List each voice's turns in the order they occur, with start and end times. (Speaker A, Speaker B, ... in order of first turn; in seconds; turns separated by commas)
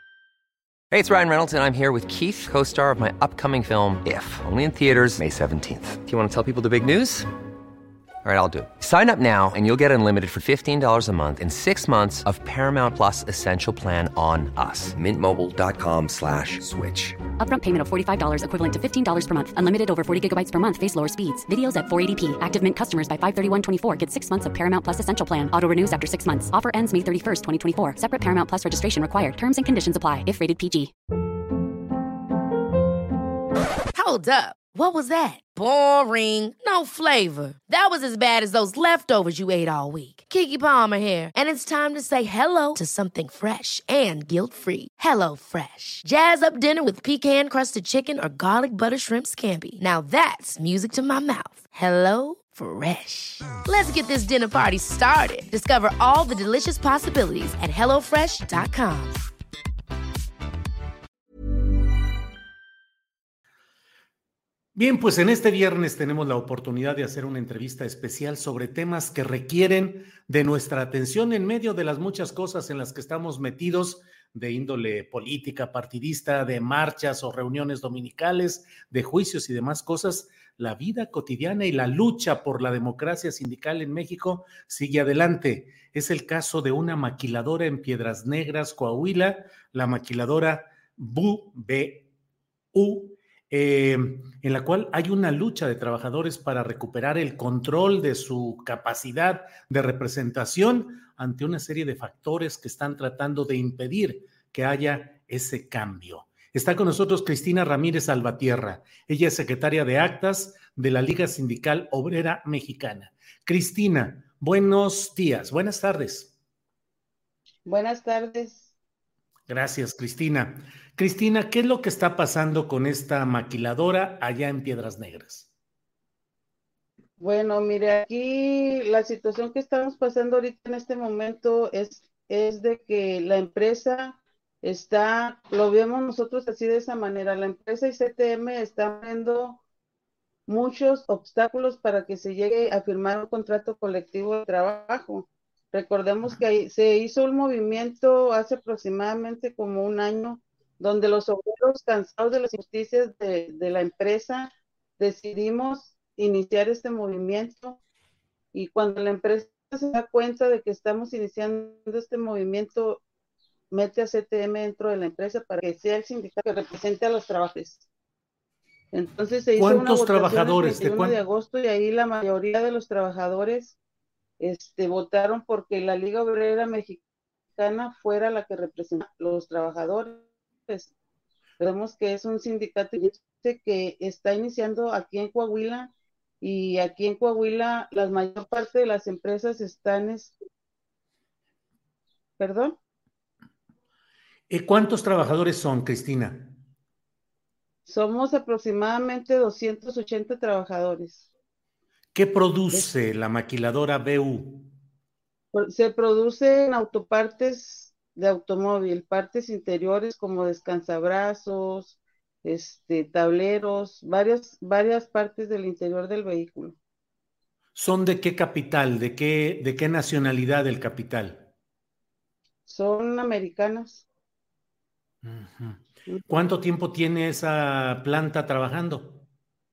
Speaker A: 0.9-7.3, Speaker A: 8.2-17.1, Speaker B: 17.4-30.9, Speaker C: 33.9-59.2, Speaker D: 64.7-92.1, Speaker D: 92.7-116.3, Speaker E: 117.7-118.7, Speaker D: 119.5-125.5, Speaker E: 127.2-139.6, Speaker E: 140.5-157.8, Speaker E: 158.5-163.0, Speaker E: 163.7-167.8, Speaker E: 168.9-173.8, Speaker D: 169.6-171.2, Speaker E: 174.4-177.0, Speaker E: 177.5-180.9, Speaker E: 181.6-190.3, Speaker E: 192.4-192.8, Speaker D: 194.5-196.6, Speaker E: 197.8-201.3, Speaker D: 202.1-204.7, Speaker E: 205.5-216.8, Speaker D: 217.8-221.5, Speaker E: 222.7-224.0, Speaker D: 225.2-229.3